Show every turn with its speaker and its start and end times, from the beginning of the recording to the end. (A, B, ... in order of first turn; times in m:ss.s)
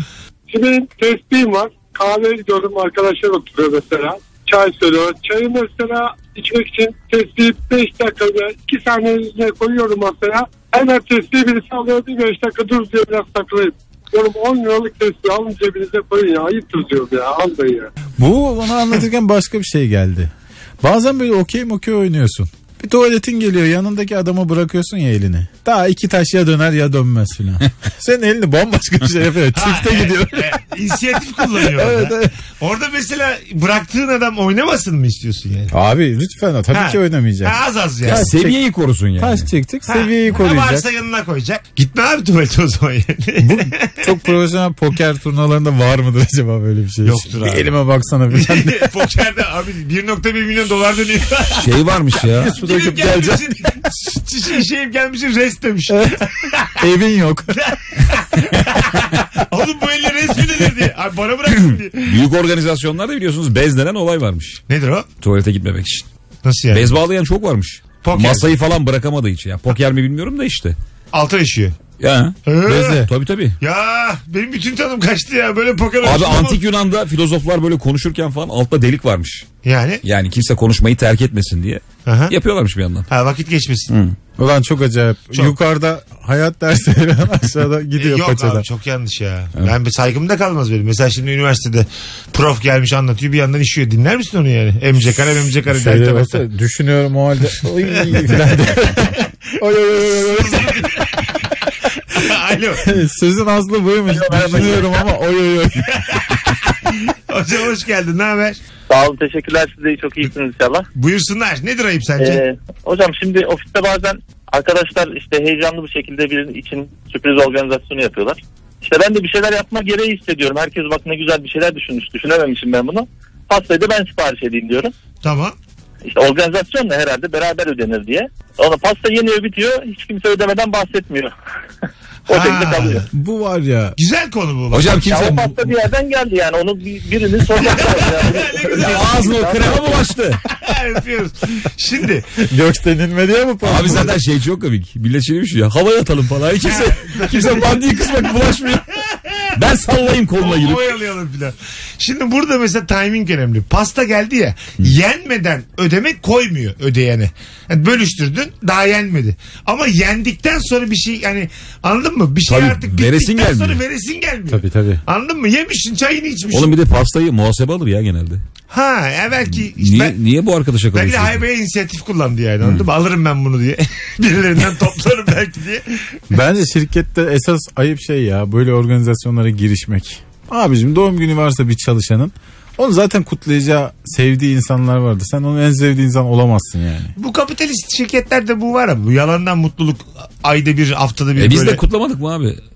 0:00.5-0:17.9 A
0:18.2-0:30.6 B
0:29.5-0:35.7 C
0:31.5-0:32.3 B
0:35.7-0:38.6 B
0:36.7-0:38.3 C
0:38.0-0:39.5 D
0:39.2-0:40.8 B
0:39.9-0:44.1 C
0:43.4-0:48.9 B
0:47.0-0:47.7 C
0:48.3-0:56.7 C
0:51.6-0:52.5 D
0:52.4-0:53.7 B
0:55.9-0:57.7 B
0:57.6-1:02.2 C
1:02.0-1:04.6 D
1:04.7-1:05.1 C
1:05.2-1:06.0 D
1:06.4-1:06.9 C
1:06.7-1:10.8 D
1:08.0-1:08.5 C
1:11.1-1:11.8 C
1:12.0-1:13.6 D
1:12.4-1:13.0 C
1:12.6-1:13.1 B
1:13.6-1:16.6 C
1:16.0-1:19.4 D
1:19.6-1:20.0 C
1:20.0-1:23.1 D
1:22.0-1:22.3 C
1:23.1-1:23.9 C
1:23.9-1:24.1 D
1:24.4-1:28.6 B
1:28.0-1:36.4 C
1:35.7-1:41.0 B
1:37.9-1:38.5 C
1:39.8-1:41.4 C
1:42.1-1:42.9 C
1:42.8-1:46.3 B
1:44.1-1:44.9 E
1:45.9-1:48.6 C
1:48.9-1:50.8 E
1:50.9-1:52.4 C
1:52.2-2:04.9 E
2:05.2-2:05.5 C
2:06.0-2:11.3 E
2:12.3-2:13.0 E
2:12.3-2:13.0 C
2:13.1-2:14.0 B
2:14.0-2:15.0 C
2:14.7-2:15.7 D
2:15.0-2:20.0 E
2:17.5-2:19.3 C
2:18.8-2:20.4 D
2:20.5-2:22.3 C
2:22.4-2:24.2 B
2:23.6-2:28.9 D
2:26.6-2:27.8 C
2:29.5-2:31.0 D
2:30.4-2:46.7 C
2:42.5-2:43.8 D
2:44.5-2:45.0 B
2:46.5-2:48.4 D
2:48.7-2:50.2 C
2:49.5-2:51.4 D
2:50.9-2:56.2 C
2:52.6-2:52.9 D
2:56.3-3:07.1 B
3:07.2-3:11.8 C
3:11.4-3:12.6 D